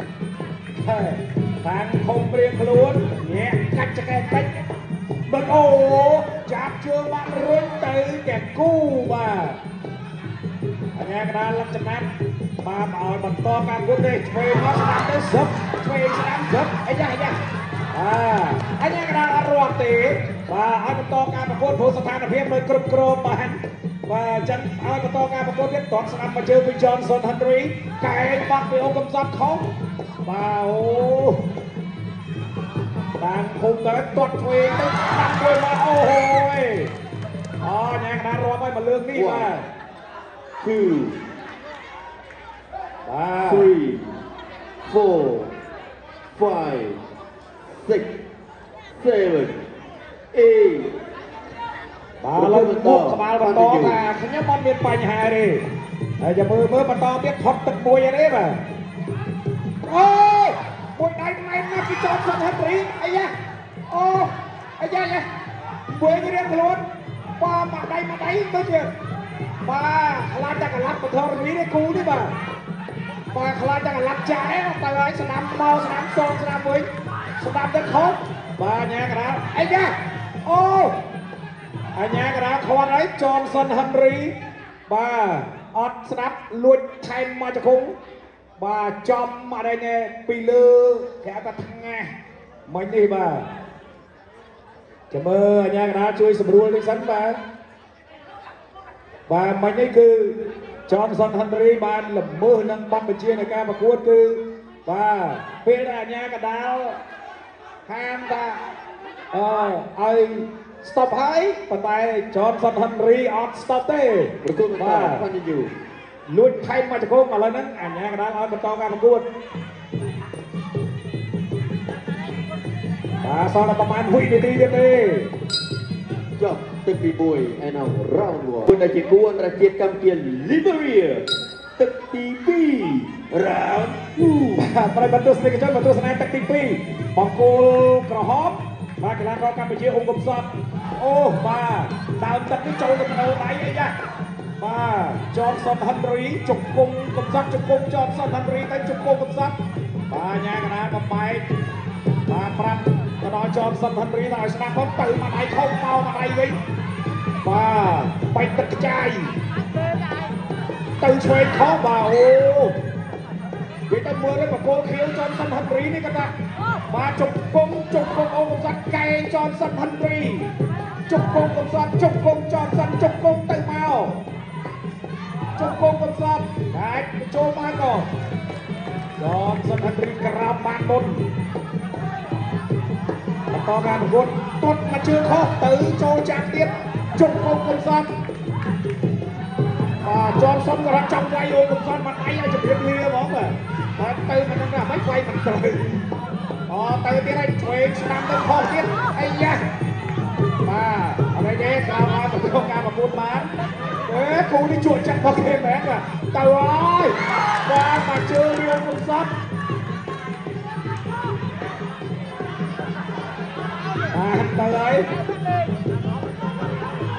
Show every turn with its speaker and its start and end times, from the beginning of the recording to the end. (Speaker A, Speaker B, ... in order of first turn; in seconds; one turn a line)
Speaker A: 0.8-4.5
Speaker A: 5.3-9.6
Speaker A: 10.9-12.1
Speaker A: 12.6-17.4
Speaker A: 17.9-29.7
Speaker A: 30.2-31.4
Speaker A: 33.2-36.9
Speaker A: 37.6-39.7
Speaker B: 39.1-39.5
Speaker B: 40.6-41.1
Speaker A: 43.1-43.7
Speaker B: 43.5-44.1
Speaker B: 44.9-45.5
Speaker B: 46.3-47.0
Speaker B: 47.8-48.1
Speaker B: 49.0-49.6
Speaker B: 50.3-50.9
Speaker A: 52.2-55.6
Speaker B: 52.3-54.0
Speaker A: 56.2-58.6
Speaker A: 59.8-63.3
Speaker A: 63.9-65.2
Speaker A: 65.9-66.8
Speaker A: 67.4-68.9
Speaker A: 69.6-72.3
Speaker A: 73.3-76.9
Speaker A: 77.4-81.0
Speaker A: 82.0-84.3
Speaker A: 84.9-88.0
Speaker A: 88.6-92.1
Speaker A: 92.7-93.5
Speaker A: 95.1-97.4
Speaker A: 99.3-107.0
Speaker A: 107.9-108.6
Speaker A: 109.3-115.2
Speaker B: 114.4-115.7
Speaker A: 116.3-119.2
Speaker A: 123.2-125.3
Speaker B: 126.4-131.2
Speaker B: 131.8-134.6
Speaker A: 134.6-143.9
Speaker A: 144.6-149.6
Speaker A: 150.1-151.5
Speaker A: 152.3-156.6
Speaker A: 157.4-159.3
Speaker A: 161.0-162.8
Speaker A: 163.9-166.3
Speaker A: 166.9-170.5
Speaker A: 171.1-174.2
Speaker A: 175.6-178.1
Speaker A: 179.2-181.2
Speaker A: 183.5-188.1
Speaker A: 190.0-195.9
Speaker A: 196.7-199.6
Speaker A: 200.6-203.5
Speaker A: 204.1-209.3
Speaker A: 214.1-215.1